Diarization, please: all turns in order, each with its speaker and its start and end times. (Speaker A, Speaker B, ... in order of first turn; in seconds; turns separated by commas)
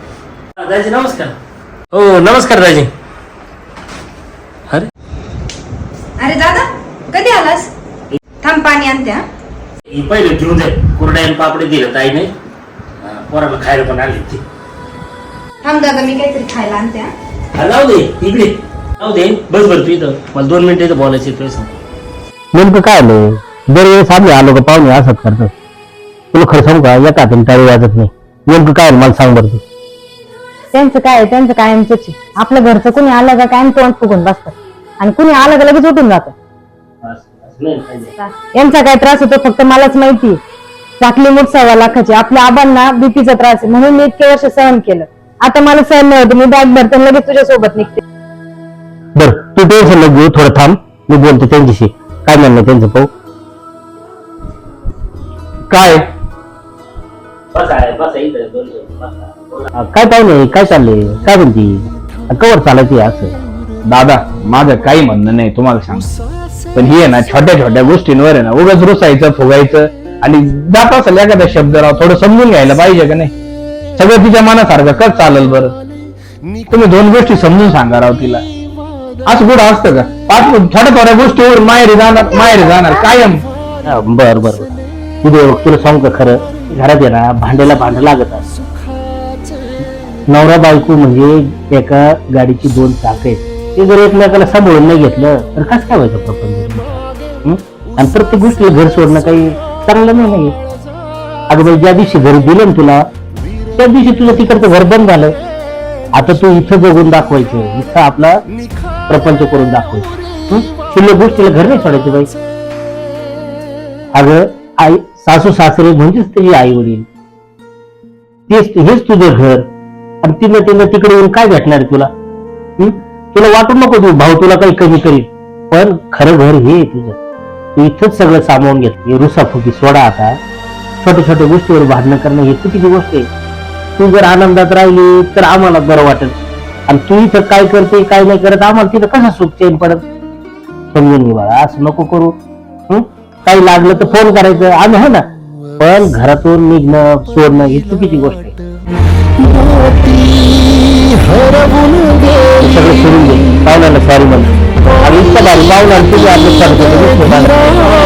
Speaker A: 0.6-1.4, Speaker A: 1.9-2.9, Speaker B: 2.0-2.8, Speaker C: 6.2-7.7, Speaker C: 8.4-9.2, Speaker A: 9.9-12.3, Speaker B: 10.3-10.6, Speaker B: 11.5-12.2, Speaker A: 13.0-14.4, Speaker B: 13.2-14.3, Speaker C: 15.6-17.1, Speaker A: 17.6-21.7, Speaker B: 17.7-18.2, Speaker B: 19.1-21.6, Speaker B: 22.5-25.5, Speaker B: 26.3-29.6, Speaker D: 30.7-36.4, Speaker B: 37.0-38.1, Speaker D: 38.2-40.4, Speaker D: 41.0-48.0, Speaker B: 49.2-53.1, Speaker E: 55.7-56.1, Speaker A: 57.5-59.6, Speaker B: 57.7-58.4, Speaker B: 59.8-63.4, Speaker E: 63.9-66.1, Speaker E: 66.7-73.3, Speaker E: 74.0-75.8, Speaker E: 76.7-78.5, Speaker E: 79.3-83.5, Speaker B: 83.9-88.5, Speaker B: 90.3-100.6, Speaker B: 101.5-103.0, Speaker B: 103.8-105.4, Speaker B: 106.2-108.4, Speaker B: 109.1-112.3, Speaker B: 114.1-117.1, Speaker B: 118.5-119.7, Speaker B: 120.2-122.1, Speaker B: 122.8-127.2, Speaker B: 127.8-130.4, Speaker B: 131.0-133.3, Speaker B: 134.0-140.1, Speaker B: 140.9-145.3, Speaker B: 145.8-148.6, Speaker B: 152.6-157.8